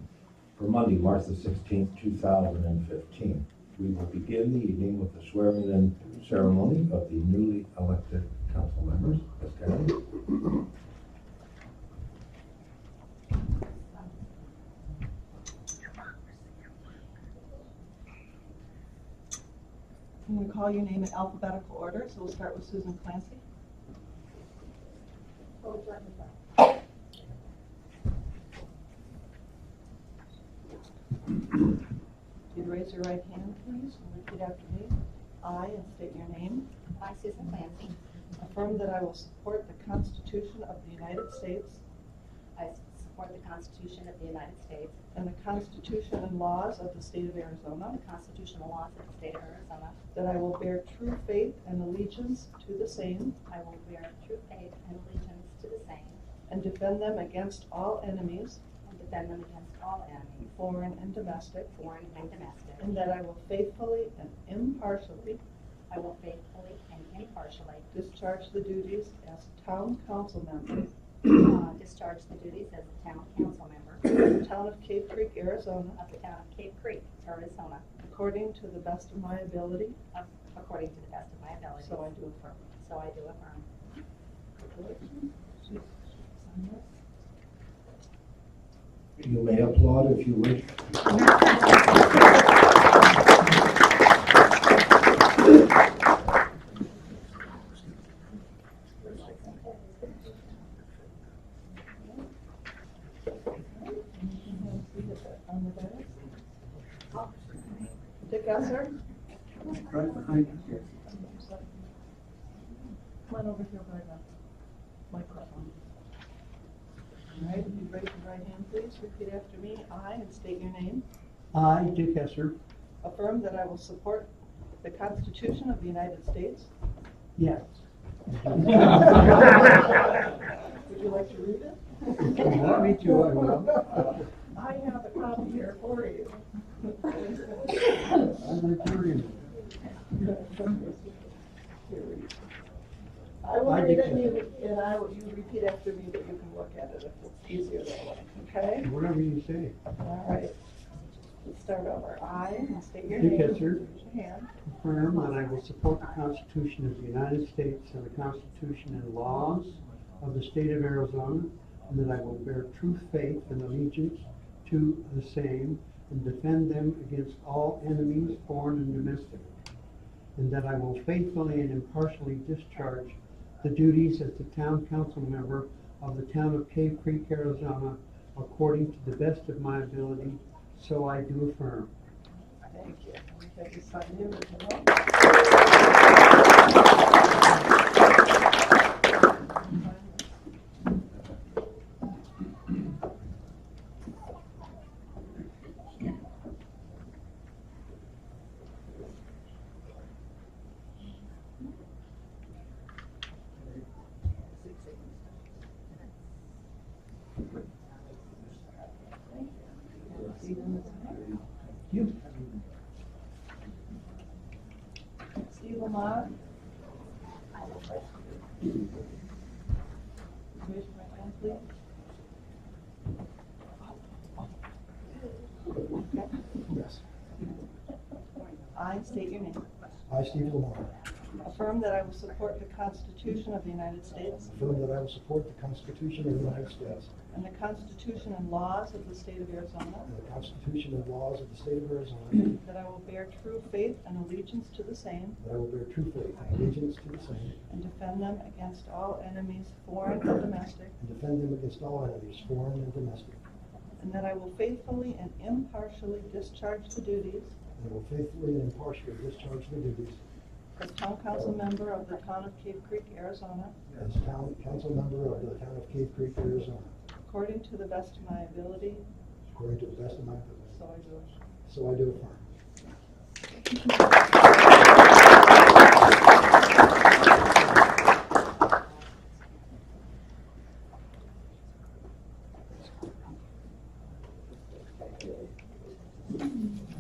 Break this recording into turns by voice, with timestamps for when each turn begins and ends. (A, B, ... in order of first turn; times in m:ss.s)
0:00.6-0:10.0 A
0:20.3-0:23.4 B
0:25.6-0:26.4 C
0:32.5-0:36.7 B
0:37.0-0:38.0 C
0:38.4-0:41.8 B
0:42.6-0:45.0 C
0:45.1-0:48.0 B
0:47.9-0:50.0 C
0:50.1-0:53.4 B
0:53.5-0:56.2 C
0:56.5-0:58.6 B
0:58.8-1:00.5 C
1:00.4-1:01.7 B
1:01.7-1:02.9 C
1:02.8-1:05.4 B
1:05.9-1:07.9 C
1:07.9-1:10.9 B
1:11.3-1:14.0 C
1:14.1-1:16.0 B
1:16.0-1:17.9 C
1:18.1-1:20.0 B
1:20.1-1:22.0 C
1:21.8-1:22.8 B
1:22.8-1:23.6 C
1:24.6-1:26.9 B
1:29.2-1:30.8 A
1:39.0-1:39.6 B
1:39.5-1:39.8 C
1:42.0-1:42.2 B
1:43.6-1:46.1 B
1:47.2-1:47.8 C
1:48.2-1:49.0 B
1:49.9-1:50.7 D
1:50.3-1:51.9 B
1:52.8-1:54.2 B
1:55.1-1:55.9 B
1:57.3-2:01.0 B
2:01.5-2:02.6 D
2:03.0-2:04.3 B
2:04.8-2:06.7 B
2:07.4-2:07.8 D
2:08.3-2:09.5 D
2:09.5-2:09.8 B
2:10.8-2:13.2 B
2:12.2-2:14.2 D
2:13.9-2:18.3 B
2:18.3-2:19.4 D
2:20.2-2:21.2 B
2:21.9-2:22.3 B
2:23.4-2:28.9 B
2:23.6-2:24.3 D
2:28.8-2:29.8 D
2:30.0-2:30.6 B
2:31.5-2:34.5 B
2:33.2-2:33.8 D
2:34.7-2:49.6 D
2:50.4-3:01.9 D
3:02.6-3:04.9 B
3:09.5-3:10.4 B
3:29.2-3:31.3 B
3:31.9-3:32.3 D
3:35.4-3:36.3 B
3:40.6-3:41.6 B
3:45.9-3:46.4 B
3:46.7-3:47.0 E
3:48.7-3:49.7 B
3:50.1-3:51.0 E
3:51.4-3:54.6 B
3:54.5-3:57.1 E
3:57.3-4:00.1 B
4:00.1-4:02.6 E
4:02.6-4:05.4 B
4:05.4-4:07.6 E
4:07.7-4:10.9 B
4:11.0-4:13.4 E
4:14.0-4:17.6 B
4:17.8-4:20.2 E
4:20.8-4:23.8 B
4:24.0-4:26.9 E
4:27.2-4:29.0 B
4:29.5-4:30.8 E
4:30.7-4:31.4 B
4:31.7-4:32.5 E
4:38.6-4:39.6 C